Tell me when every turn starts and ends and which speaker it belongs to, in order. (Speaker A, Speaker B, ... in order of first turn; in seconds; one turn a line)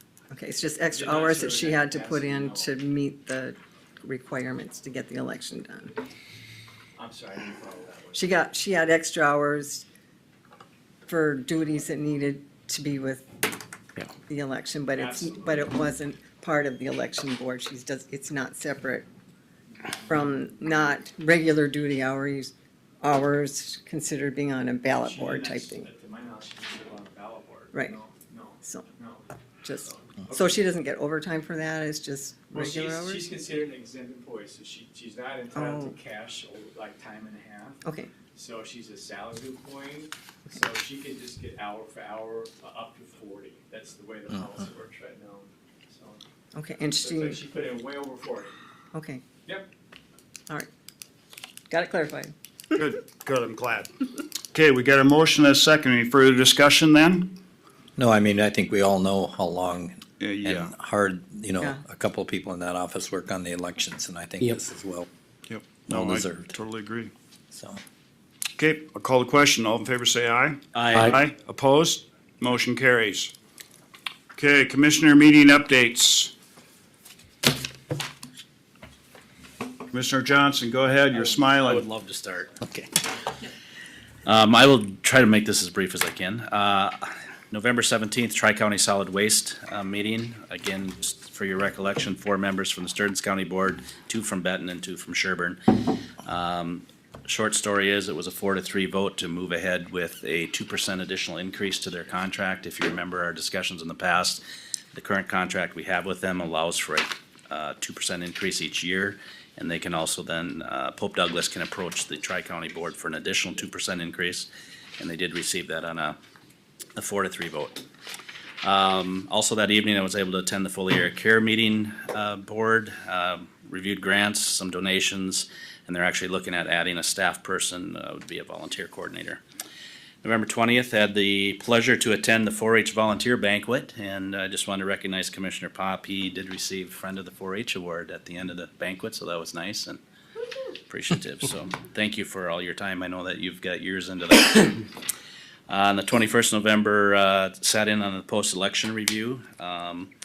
Speaker A: 0.3-6.0
Speaker B: 0.9-2.7
Speaker B: 7.0-8.3
Speaker A: 8.2-9.9
Speaker A: 11.1-13.3
Speaker A: 14.3-19.1
Speaker B: 15.0-15.7
Speaker A: 20.1-25.9
Speaker B: 24.9-30.6
Speaker A: 27.7-28.0
Speaker A: 29.6-33.3
Speaker B: 32.5-46.2
Speaker A: 35.5-36.0
Speaker A: 37.8-38.1
Speaker A: 46.5-47.4
Speaker B: 46.9-48.5
Speaker A: 48.9-49.2
Speaker A: 51.7-52.8
Speaker C: 52.8-53.9
Speaker C: 54.5-57.4
Speaker D: 58.0-65.1
Speaker C: 60.2-60.7
Speaker C: 65.5-67.1
Speaker D: 65.9-66.5
Speaker D: 67.5-67.8
Speaker C: 68.6-73.3
Speaker E: 70.7-71.1
Speaker C: 74.4-76.3
Speaker C: 79.9-81.8
Speaker E: 81.1-82.9
Speaker E: 84.3-95.6
Speaker E: 96.2-104.4
Speaker E: 104.9-114.5
Speaker E: 115.0-116.2
Speaker E: 117.0-117.8
Speaker E: 118.6-129.4
Speaker E: 130.2-140.0
Speaker E: 140.9-144.9
Speaker E: 145.7-150.1